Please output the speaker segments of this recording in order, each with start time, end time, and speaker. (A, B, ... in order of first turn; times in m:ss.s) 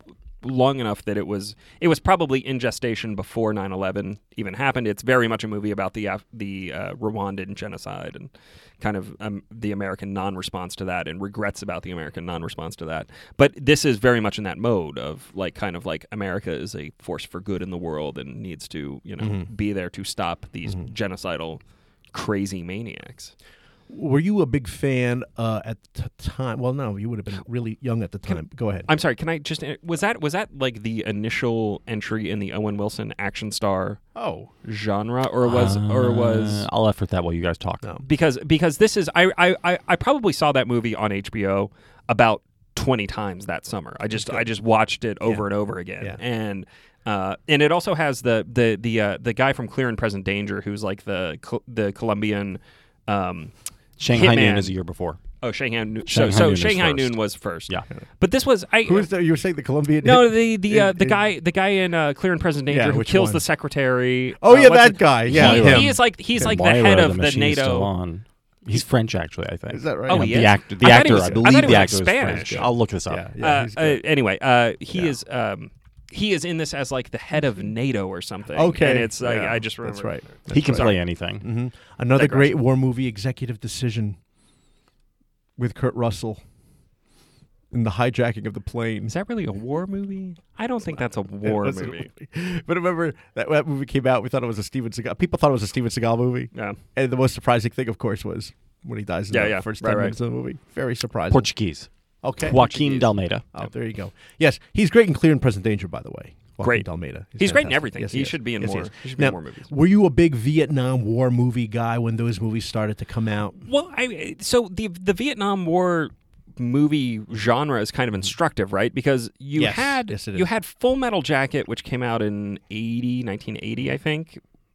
0:00.4-0:21.6 A
0:19.2-0:19.5 B
0:22.1-0:23.3 A
0:23.9-0:28.9 B
0:28.3-0:34.0 A
0:34.2-0:34.5 B
0:34.6-0:36.6 A
0:35.4-0:37.9 C
0:38.0-0:53.5 A
0:44.2-0:44.5 B
0:54.0-0:55.2 C
0:54.1-0:54.7 A
0:55.4-0:59.1 A
0:56.0-0:57.9 C
0:58.9-1:01.2 B
1:00.0-1:07.9 A
1:02.7-1:03.4 B
1:04.4-1:06.0 B
1:05.3-1:13.2 C
1:09.7-1:14.0 B
1:10.1-1:12.7 A
1:13.4-1:20.9 A
1:18.5-1:24.2 B
1:20.5-1:21.4 C
1:22.1-1:22.6 A
1:25.6-1:26.4 B
1:27.7-1:29.1 B
1:29.1-1:32.1 A
1:31.4-1:41.5 B
1:36.5-1:36.8 A
1:39.3-1:40.1 A
1:41.3-1:43.4 C
1:42.2-1:42.6 B
1:42.5-1:43.7 A
1:43.5-1:53.6 B
1:46.6-1:46.9 A
1:47.4-1:49.7 A
1:53.6-2:04.4 A
1:59.6-2:00.5 B